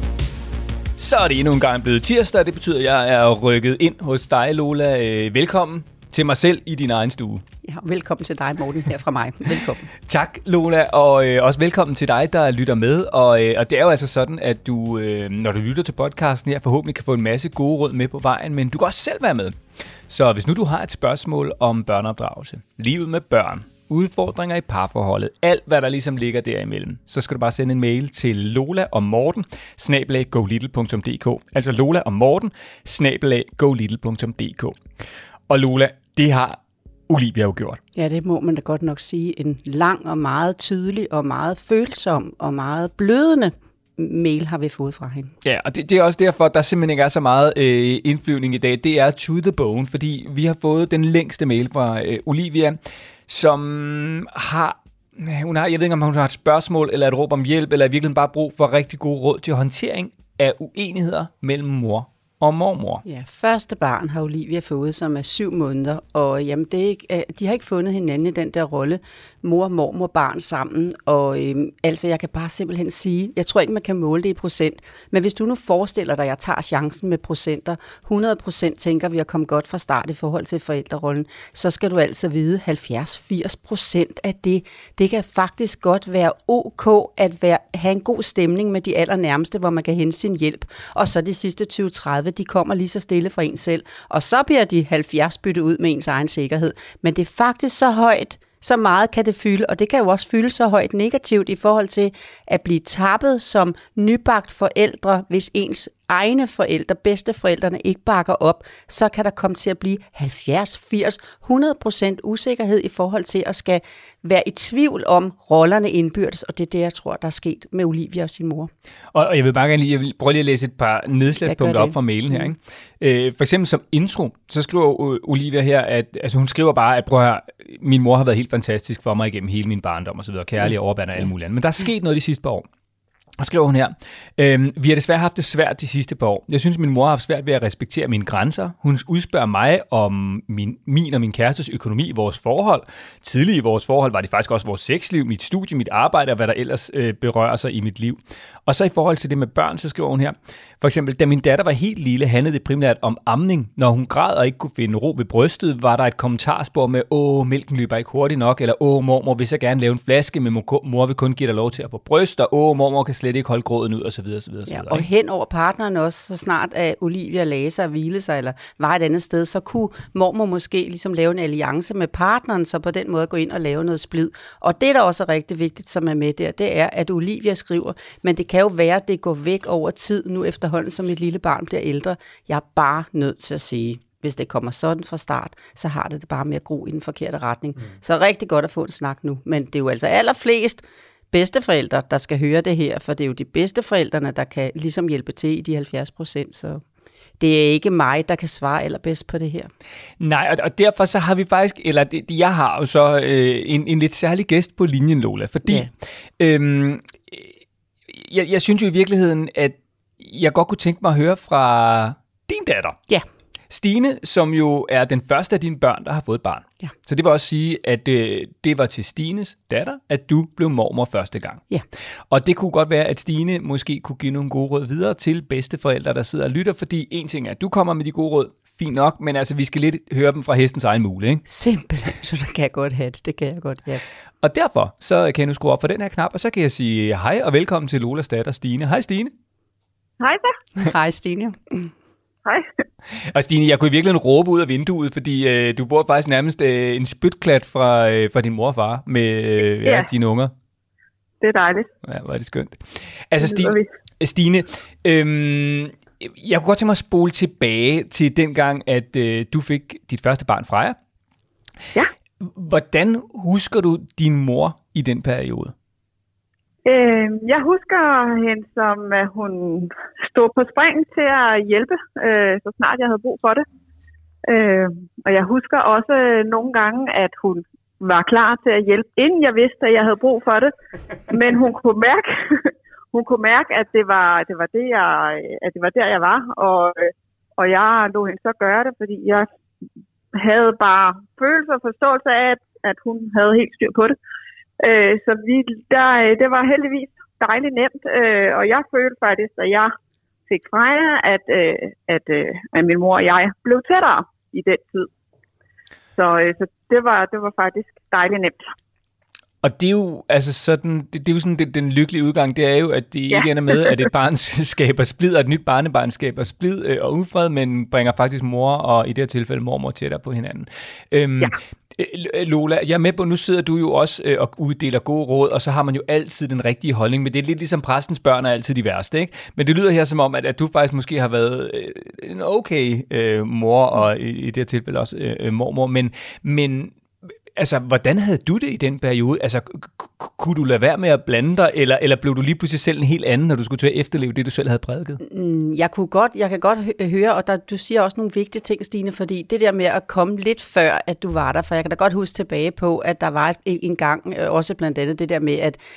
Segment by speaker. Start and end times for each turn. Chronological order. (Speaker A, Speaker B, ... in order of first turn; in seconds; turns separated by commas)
Speaker A: 1.0-7.4, Speaker B: 7.6-9.9, Speaker A: 10.1-19.6, Speaker A: 20.1-34.8, Speaker A: 35.5-37.8, Speaker B: 37.9-45.3, Speaker A: 45.4-63.0, Speaker B: 63.0-118.7, Speaker A: 119.1-132.7, Speaker B: 121.4-122.5, Speaker A: 133.4-165.1, Speaker B: 164.7-196.8, Speaker B: 197.4-199.7, Speaker A: 200.2-207.5, Speaker A: 208.1-213.0, Speaker A: 213.7-221.6, Speaker A: 222.3-231.4, Speaker B: 231.5-234.0, Speaker A: 234.4-239.3, Speaker C: 240.2-240.6, Speaker B: 240.8-241.9, Speaker A: 243.2-250.5, Speaker C: 251.4-251.9, Speaker A: 252.0-260.9, Speaker C: 253.4-253.9, Speaker A: 262.4-265.7, Speaker C: 266.8-273.6, Speaker C: 274.4-280.7, Speaker C: 281.3-289.5, Speaker C: 290.3-294.1, Speaker C: 294.8-299.9, Speaker C: 300.5-305.1, Speaker C: 306.1-308.7, Speaker A: 309.6-336.9, Speaker C: 313.3-313.9, Speaker A: 337.6-345.2, Speaker B: 345.2-355.8